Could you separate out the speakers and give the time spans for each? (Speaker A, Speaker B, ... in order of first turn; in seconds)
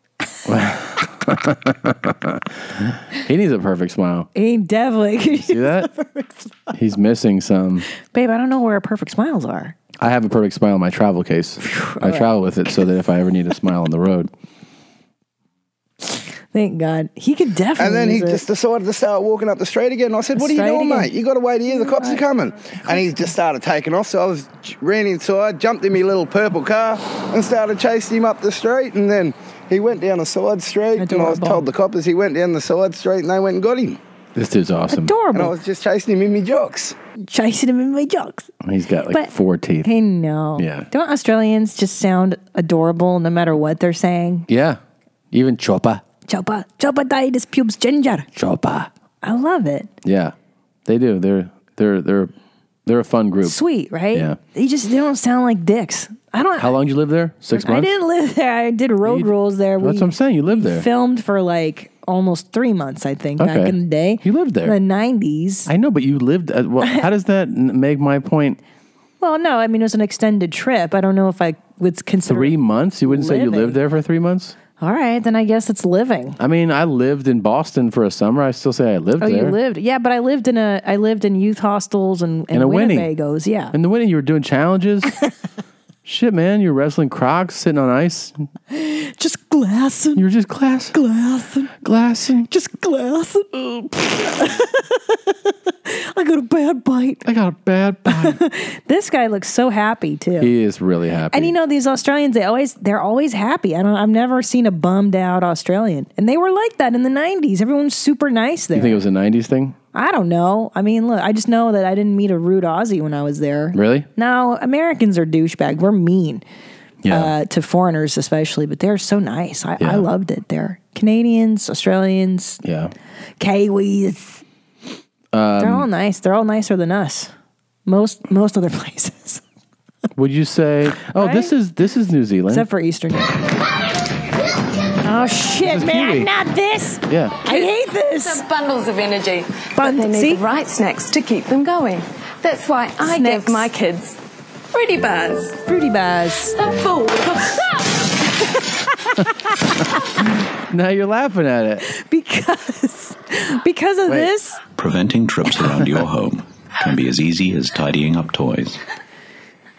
Speaker A: 0.5-4.3, 5.4-5.9, 6.7-7.8, 10.0-14.3, 34.3-35.1, 38.6-39.9, 40.5-40.9, 44.5-44.8, 45.3-46.0, 48.3-48.9, 50.0-50.3, 50.9-52.3, 52.9-53.6, 54.1-54.4, 56.6-57.9, 59.0-60.9, 63.4-64.7, 65.7-68.6, 72.3-74.5, 76.4-79.5, 82.5-83.1, 83.7-85.1, 86.0-88.4, 90.2-91.0, 91.8-92.5, 97.2-98.4, 100.4-101.5, 108.7-109.8, 113.7-114.1, 117.0-117.3, 119.8-120.0, 122.6-122.9, 125.3-125.9, 130.2-132.7, 135.6-136.3, 137.1-137.4, 150.7-151.8
Speaker B: 4.3-6.7, 8.0-9.7, 11.7-12.3, 16.1-18.4, 20.4-21.1, 21.7-22.2, 31.0-31.6, 34.9-35.5, 37.3-38.5, 39.8-44.5, 46.3-48.3, 49.2-49.9, 53.4-56.7, 57.5-65.7, 69.2-73.8, 74.8-76.4, 79.2-83.7, 88.7-90.2, 90.9-91.7, 92.5-97.2, 98.1-100.5, 101.3-109.0, 109.9-116.4, 117.1-122.6, 123.4-124.4, 125.6-127.3, 127.8-129.4, 131.2-131.5, 132.5-133.3, 135.0-138.4, 139.8-140.4, 143.0-143.7, 145.7-146.6, 151.9-154.6
Speaker C: 17.8-34.0, 35.3-36.9
Speaker D: 137.4-144.2, 144.7-145.6, 146.5-147.7
Speaker E: 154.8-158.8